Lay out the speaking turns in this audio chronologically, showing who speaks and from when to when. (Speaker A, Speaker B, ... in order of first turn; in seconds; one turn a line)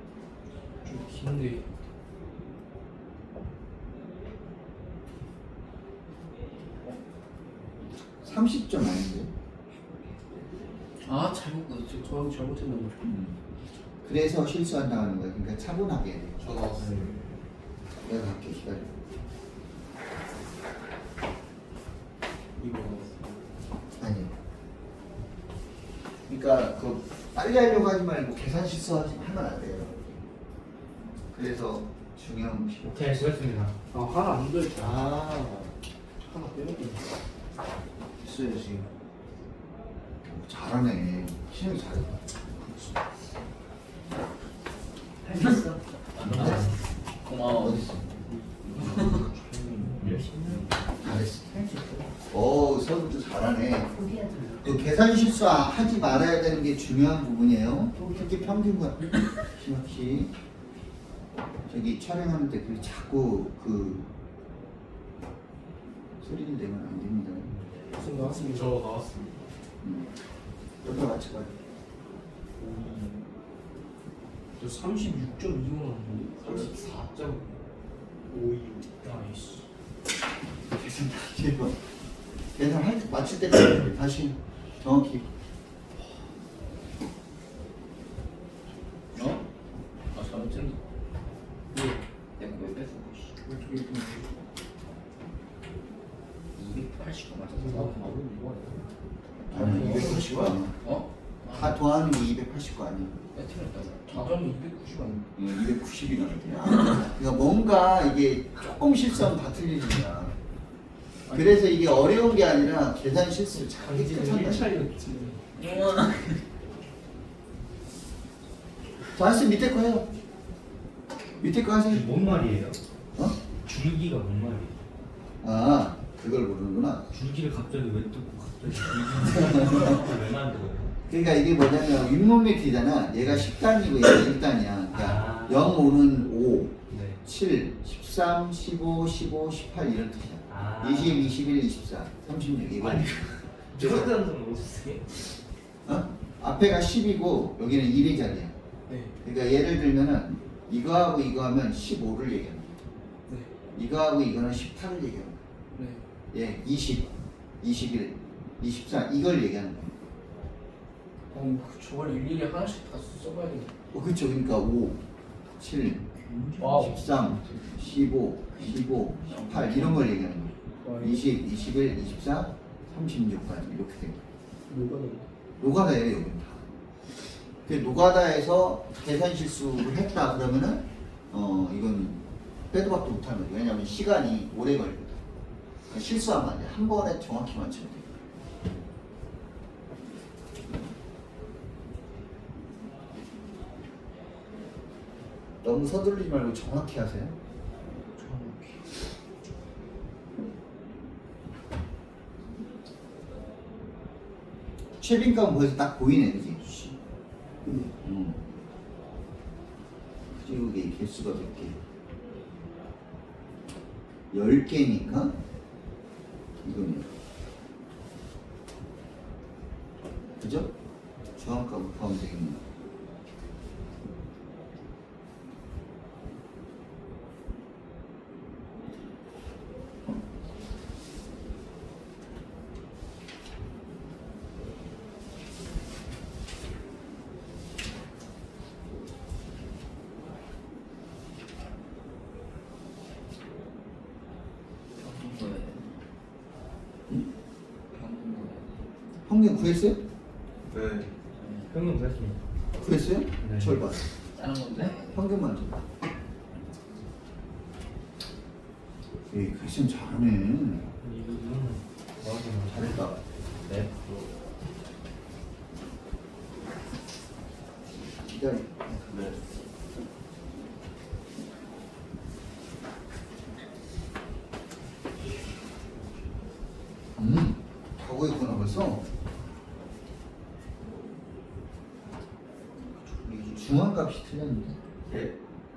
Speaker A: 0.8-1.7
Speaker B: 8.2-9.3
Speaker C: 11.0-12.1
Speaker A: 11.8-13.1
Speaker B: 13.0-13.3
Speaker B: 14.0-16.4
Speaker D: 16.4-17.2
Speaker B: 18.0-18.9
Speaker D: 22.6-23.4
Speaker B: 24.0-24.3
Speaker B: 26.3-30.2
Speaker B: 31.3-32.9
Speaker E: 32.8-33.7
Speaker A: 33.9-35.1
Speaker B: 34.8-35.7
Speaker A: 36.2-37.0
Speaker B: 38.2-38.9
Speaker B: 40.2-42.2
Speaker E: 45.2-46.8
Speaker B: 46.2-46.7
Speaker C: 46.3-46.6
Speaker C: 47.2-47.9
Speaker B: 47.5-48.0
Speaker A: 48.6-50.1
Speaker C: 48.7-49.3
Speaker E: 49.8-52.1
Speaker B: 51.0-51.5
Speaker B: 52.3-53.9
Speaker E: 53.9-54.7
Speaker B: 54.6-60.3
Speaker E: 57.9-58.5
Speaker B: 61.7-64.1
Speaker B: 66.2-67.5
Speaker E: 67.5-67.9
Speaker A: 67.9-68.8
Speaker D: 68.3-69.5
Speaker B: 69.8-70.1
Speaker B: 70.8-71.5
Speaker D: 72.6-73.2
Speaker A: 74.6-76.6
Speaker D: 76.4-77.6
Speaker D: 78.3-79.0
Speaker A: 79.0-79.6
Speaker B: 80.7-81.8
Speaker B: 82.5-85.3
Speaker C: 89.1-89.4
Speaker C: 90.1-90.7
Speaker A: 91.7-92.0
Speaker C: 92.4-93.3
Speaker A: 93.4-94.3
Speaker C: 96.5-98.2
Speaker A: 97.5-98.8
Speaker B: 99.5-100.7
Speaker A: 99.5-100.6
Speaker C: 99.8-100.2
Speaker C: 100.8-101.8
Speaker B: 101.5-103.2
Speaker C: 103.3-104.4
Speaker A: 104.1-105.3
Speaker B: 105.4-110.3
Speaker B: 111.3-114.7
Speaker A: 113.6-115.4
Speaker C: 115.6-116.4
Speaker B: 119.1-120.0
Speaker B: 121.4-122.1
Speaker E: 121.9-122.8
Speaker E: 123.6-124.8
Speaker B: 125.4-127.0
Speaker E: 127.1-130.9
Speaker B: 129.3-130.0
Speaker B: 131.1-143.1
Speaker E: 134.9-135.8
Speaker E: 136.9-137.2
Speaker E: 140.5-141.3
Speaker E: 142.8-145.4
Speaker B: 143.7-144.1
Speaker B: 145.8-148.5
Speaker A: 148.9-149.1
Speaker B: 149.2-152.7
Speaker B: 153.7-155.4
Speaker A: 155.7-156.0
Speaker B: 156.3-159.9
Speaker A: 161.3-163.7
Speaker B: 163.9-165.0
Speaker B: 165.6-174.2
Speaker A: 166.6-167.1
Speaker A: 170.8-171.2
Speaker A: 174.7-175.2
Speaker B: 175.6-176.6
Speaker B: 177.7-182.2
Speaker B: 182.7-185.2
Speaker B: 185.9-188.1
Speaker B: 195.6-197.3
Speaker A: 198.2-198.6
Speaker C: 198.2-198.5
Speaker B: 205.0-206.6
Speaker A: 206.6-206.9
Speaker A: 207.6-207.9
Speaker B: 208.0-208.4
Speaker B: 210.3-211.8
Speaker B: 214.3-215.3
Speaker B: 216.6-217.1
Speaker B: 220.4-220.7
Speaker B: 221.3-222.6
Speaker C: 245.0-245.9
Speaker C: 247.9-248.8
Speaker B: 249.2-250.0
Speaker D: 250.7-251.1
Speaker C: 251.3-251.7
Speaker E: 251.7-252.4
Speaker B: 252.7-254.0
Speaker E: 253.4-253.8
Speaker C: 254.3-255.2
Speaker B: 255.1-255.8
Speaker B: 259.3-260.9
Speaker E: 261.0-263.9
Speaker B: 262.7-263.1
Speaker B: 268.2-269.4
Speaker B: 277.2-279.0
Speaker B: 283.2-284.8
Speaker C: 283.3-283.5
Speaker D: 285.1-285.3